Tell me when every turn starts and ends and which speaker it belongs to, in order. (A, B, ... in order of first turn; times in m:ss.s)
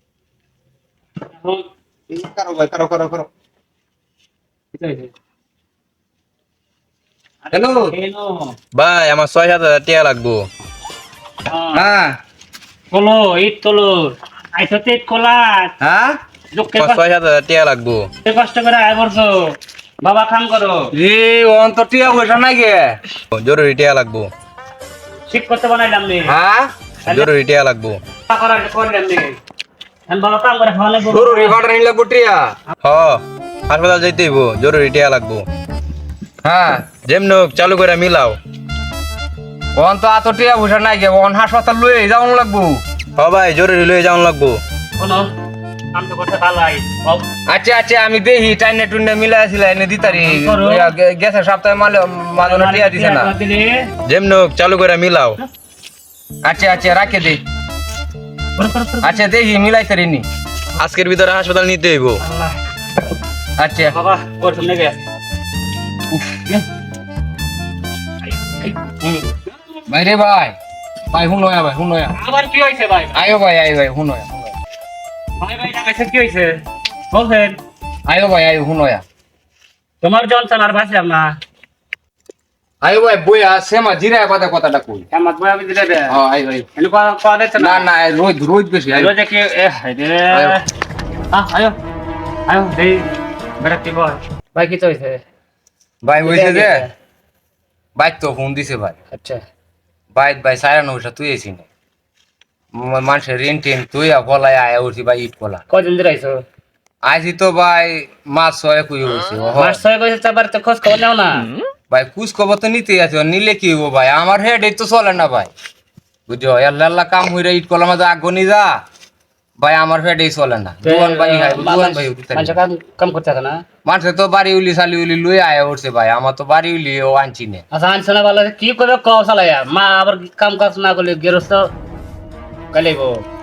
0:01.3-0:01.6 A
0:02.1-0:03.3 B
0:04.7-0:05.1 A
0:07.5-0:08.5 A
0:07.5-0:07.9 B
0:08.7-0:10.4 C
0:11.5-0:11.8 A
0:11.7-0:12.1 B
0:12.9-0:15.7 A
0:15.8-0:16.2 B
0:16.5-0:17.0 A
0:16.8-0:18.0 C
0:18.2-0:19.3 A
0:20.0-0:20.9 A
0:20.9-0:23.0 B
0:23.4-0:24.3 C
0:25.3-0:26.3 A
0:26.3-0:26.7 B
0:27.1-0:28.0 C
0:28.3-0:29.4 A
0:30.1-0:31.6 A
0:31.0-0:32.5 B
0:32.8-0:35.4 C
0:36.4-0:36.9 B
0:37.0-0:38.4 C
0:39.8-0:42.8 B
0:43.2-0:44.6 C
0:45.0-0:45.3 A
0:45.9-0:47.2 A
0:47.5-0:53.3 B
0:50.0-0:50.9 A
0:52.4-0:53.9 A
0:54.1-0:55.4 C
0:56.4-0:57.4 B
0:58.6-0:59.3 A
0:59.0-1:00.2 B
1:00.8-1:02.2 C
1:02.2-1:02.6 A
1:03.6-1:03.9 B
1:03.9-1:05.0 A
1:06.1-1:06.4 B
1:08.5-1:09.4 A
1:09.9-1:10.6 B
1:11.1-1:12.2 B
1:12.1-1:13.2 A
1:13.1-1:14.5 B
1:15.4-1:17.6 A
1:18.0-1:19.0 B
1:20.0-1:21.4 A
1:22.8-1:25.0 B
1:25.1-1:26.2 A
1:26.1-1:26.7 B
1:26.7-1:27.9 A
1:27.6-1:29.1 B
1:28.9-1:30.6 A
1:30.3-1:30.6 B
1:31.3-1:31.8 A
1:32.5-1:33.1 A
1:33.6-1:35.2 A
1:36.0-1:36.8 B
1:36.2-1:36.9 A
1:38.0-1:39.0 B
1:39.1-1:39.4 A
1:40.1-1:41.6 B
1:42.7-1:45.6 B
1:45.7-1:46.4 A
1:47.0-1:49.8 B
1:49.5-1:51.5 A
1:51.9-1:55.5 B
1:56.3-1:58.8 B
1:59.6-2:02.6 B
2:00.8-2:03.6 A
2:03.8-2:07.6 B
2:07.7-2:11.7 A
2:12.7-2:13.2 A